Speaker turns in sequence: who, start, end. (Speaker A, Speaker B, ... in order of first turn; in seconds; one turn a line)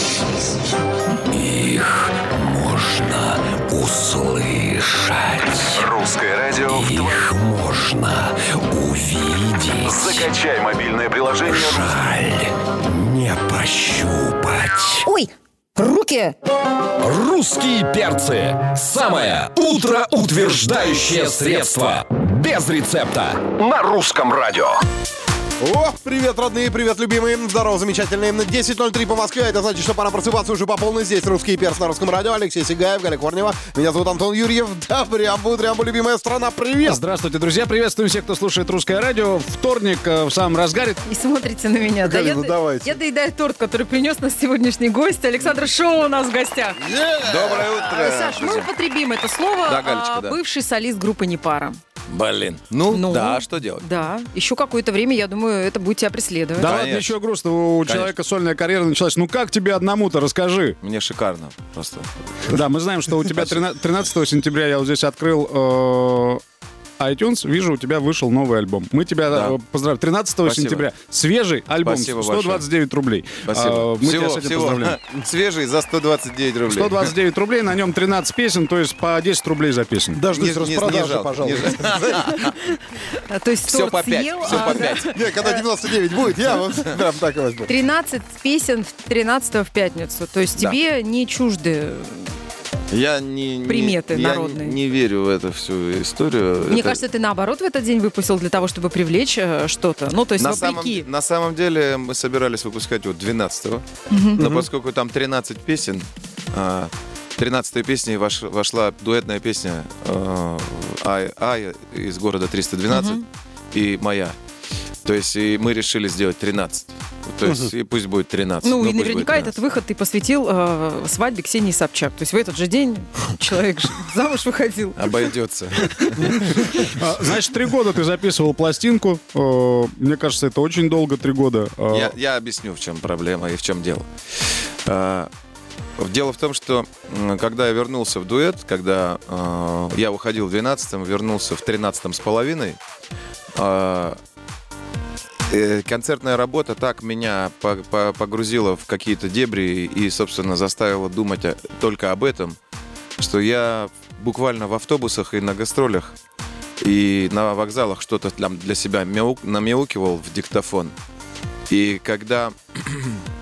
Speaker A: 1.3-5.4
Speaker B: 5.5-7.3
Speaker A: 6.7-9.9
Speaker B: 9.8-12.1
Speaker A: 11.5-15.0
Speaker C: 15.0-16.3
Speaker A: 17.0-24.8
Speaker D: 25.6-37.0
Speaker E: 36.8-41.0
Speaker C: 41.0-46.8
Speaker D: 42.0-43.0
Speaker D: 46.9-47.6
Speaker F: 47.1-48.7
Speaker C: 47.8-51.8
Speaker F: 49.6-50.4
Speaker F: 52.1-53.8
Speaker C: 52.9-56.7
Speaker E: 56.6-60.8
Speaker F: 56.6-57.1
Speaker F: 57.8-58.1
Speaker F: 60.8-62.1
Speaker E: 62.5-66.4
Speaker E: 67.0-75.0
Speaker F: 69.3-69.5
Speaker F: 70.4-70.8
Speaker F: 71.8-72.6
Speaker F: 73.5-77.1
Speaker E: 76.7-80.2
Speaker D: 80.2-82.3
Speaker F: 80.3-82.5
Speaker C: 83.3-85.6
Speaker F: 83.7-85.2
Speaker D: 84.9-87.7
Speaker C: 87.7-92.3
Speaker F: 92.9-97.0
Speaker C: 93.7-94.8
Speaker C: 96.7-101.0
Speaker F: 100.4-103.8
Speaker C: 104.1-104.6
Speaker F: 104.4-114.3
Speaker C: 112.9-113.2
Speaker F: 115.0-119.6
Speaker C: 118.6-125.2
Speaker F: 125.0-126.6
Speaker E: 126.8-132.1
Speaker F: 131.9-134.1
Speaker F: 134.8-135.3
Speaker F: 136.0-142.8
Speaker F: 143.5-144.2
Speaker F: 145.5-152.6
Speaker F: 153.2-156.1
Speaker F: 156.8-160.9
Speaker F: 161.7-163.1